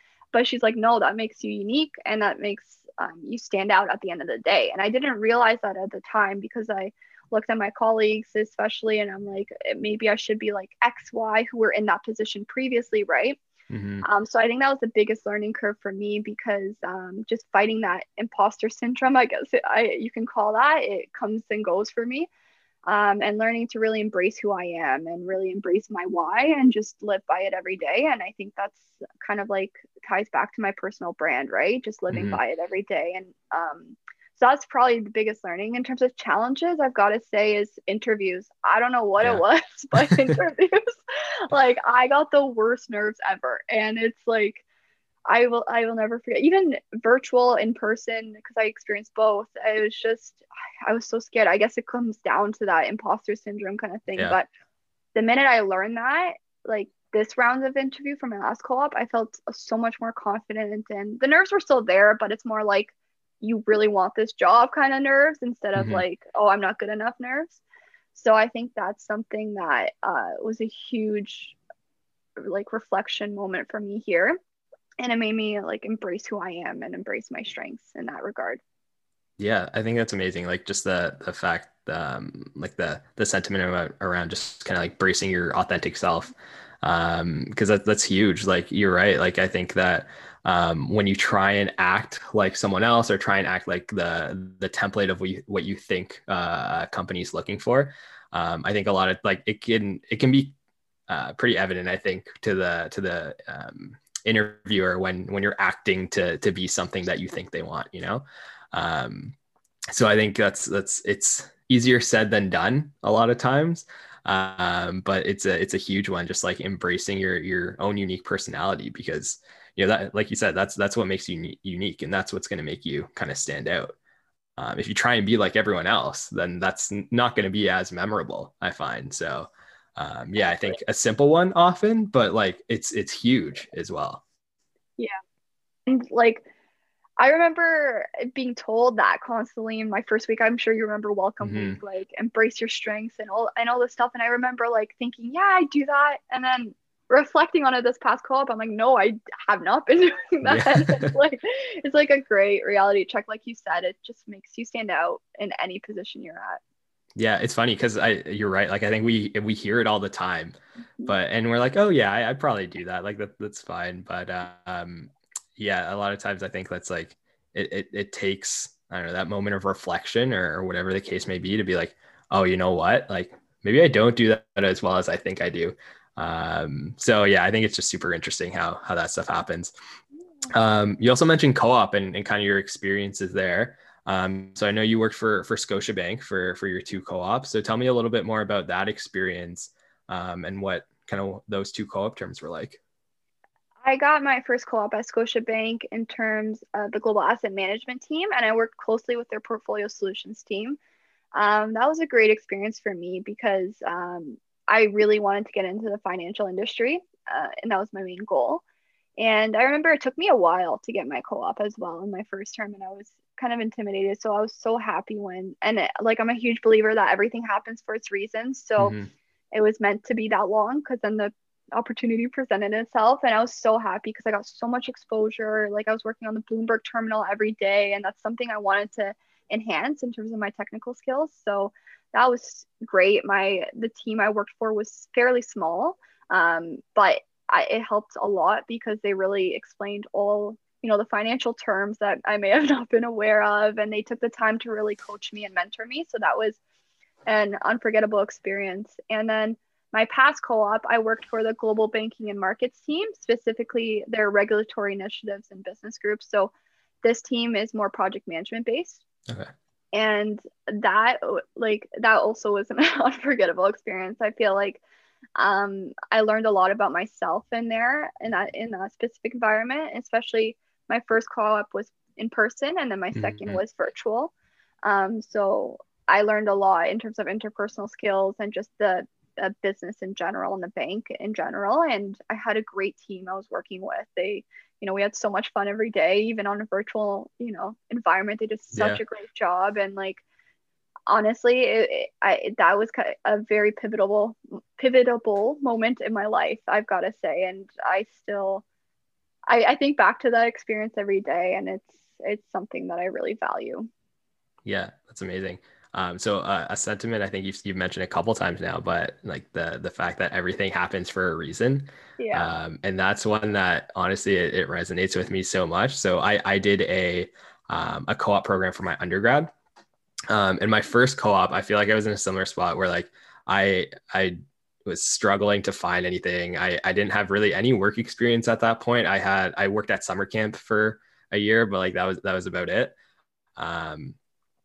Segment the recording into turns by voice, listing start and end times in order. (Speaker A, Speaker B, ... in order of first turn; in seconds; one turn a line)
Speaker A: 0.3-13.4
Speaker B: 13.7-14.1
Speaker A: 14.0-22.3
Speaker A: 22.9-44.6
Speaker B: 32.1-32.4
Speaker B: 39.9-40.3
Speaker A: 45.3-54.5
Speaker A: 55.1-67.6
Speaker B: 65.8-66.0
Speaker A: 68.1-71.5
Speaker A: 72.4-74.4
Speaker A: 75.0-78.6
Speaker B: 79.4-100.5
Speaker B: 101.1-109.3
Speaker B: 109.9-124.0
Speaker B: 124.6-134.2
Speaker A: 135.9-136.4
Speaker A: 137.2-156.6
Speaker B: 141.4-141.8
Speaker B: 150.4-151.2
Speaker B: 157.2-179.7
Speaker B: 180.5-192.8
Speaker A: 193.8-200.8
Speaker A: 201.3-208.6
Speaker A: 209.2-219.0
Speaker B: 218.8-219.1
Speaker A: 219.5-246.6
Speaker A: 247.3-256.5
Speaker A: 257.0-259.0
Speaker A: 259.9-264.8
Speaker A: 265.4-274.3
Speaker B: 273.1-273.6
Speaker A: 274.8-290.2
Speaker B: 288.7-289.0
Speaker A: 291.1-298.6
Speaker A: 299.5-303.9
Speaker B: 304.6-319.5
Speaker A: 312.2-312.5
Speaker B: 320.3-333.0
Speaker B: 333.6-334.2